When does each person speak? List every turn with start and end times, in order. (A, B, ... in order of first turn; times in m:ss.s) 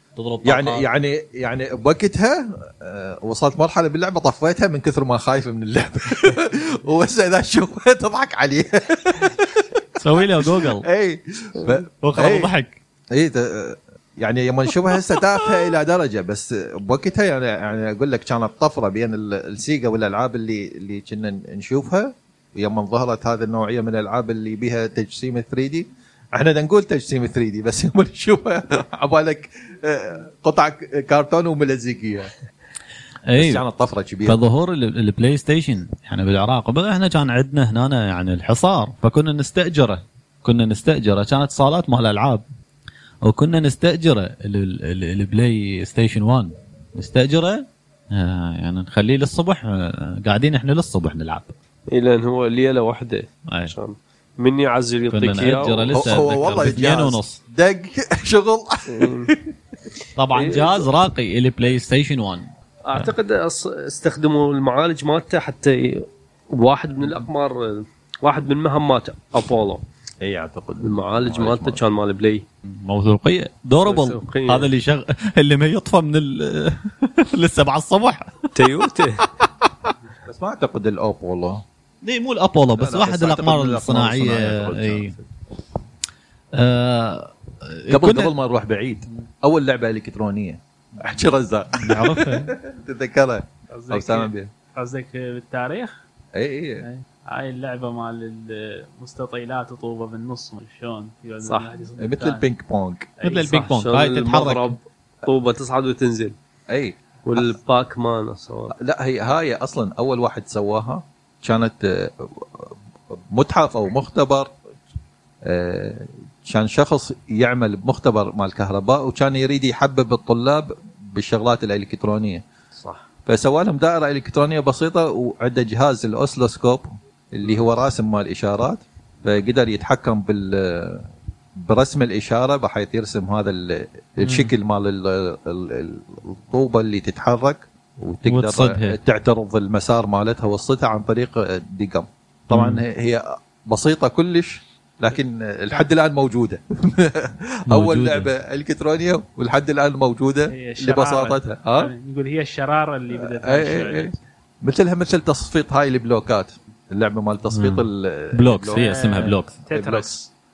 0:00.2-0:00.8 A
0:00.4-0:12.5 B
0:10.0-0:10.8 A
0:12.0-0:12.8 A
0:13.1-0:32.3 B
0:33.3-0:33.6 A
0:33.4-0:34.4 B
0:34.2-0:42.4 A
0:43.2-0:51.5 A
0:51.9-0:56.0 C
0:53.5-0:53.7 A
0:55.1-0:57.4 A
0:55.9-0:59.5 B
0:58.9-0:59.3 C
1:00.2-1:03.1 A
1:00.3-1:00.8 B
1:02.8-1:09.8 C
1:10.2-1:11.8 B
1:10.8-1:12.4 C
1:12.7-1:18.7 A
1:13.8-1:14.7 C
1:18.5-1:19.2 C
1:20.2-1:21.6 B
1:22.0-1:25.1 A
1:22.8-1:25.2 B
1:26.6-1:28.3 A
1:27.9-1:34.5 B
1:31.8-1:32.5 A
1:33.7-1:36.0 D
1:36.3-1:36.8 B
1:36.8-1:42.4 D
1:41.4-1:41.7 C
1:42.0-1:43.1 B
1:43.2-1:43.6 D
1:43.2-1:44.8 A
1:43.5-1:46.3 C
1:46.7-1:47.6 B
1:47.2-1:48.7 C
1:48.8-1:54.5 B
1:55.4-2:02.4 B
2:02.8-2:03.0 C
2:03.2-2:11.1 B
2:11.6-2:31.9 B
2:14.2-2:14.5 A
2:18.2-2:19.0 A
2:22.5-2:22.8 A
2:27.7-2:28.3 A
2:30.5-2:34.2 D
2:33.1-2:34.1 B
2:34.6-2:40.2 B
2:37.5-2:39.5 A
2:38.7-2:40.3 D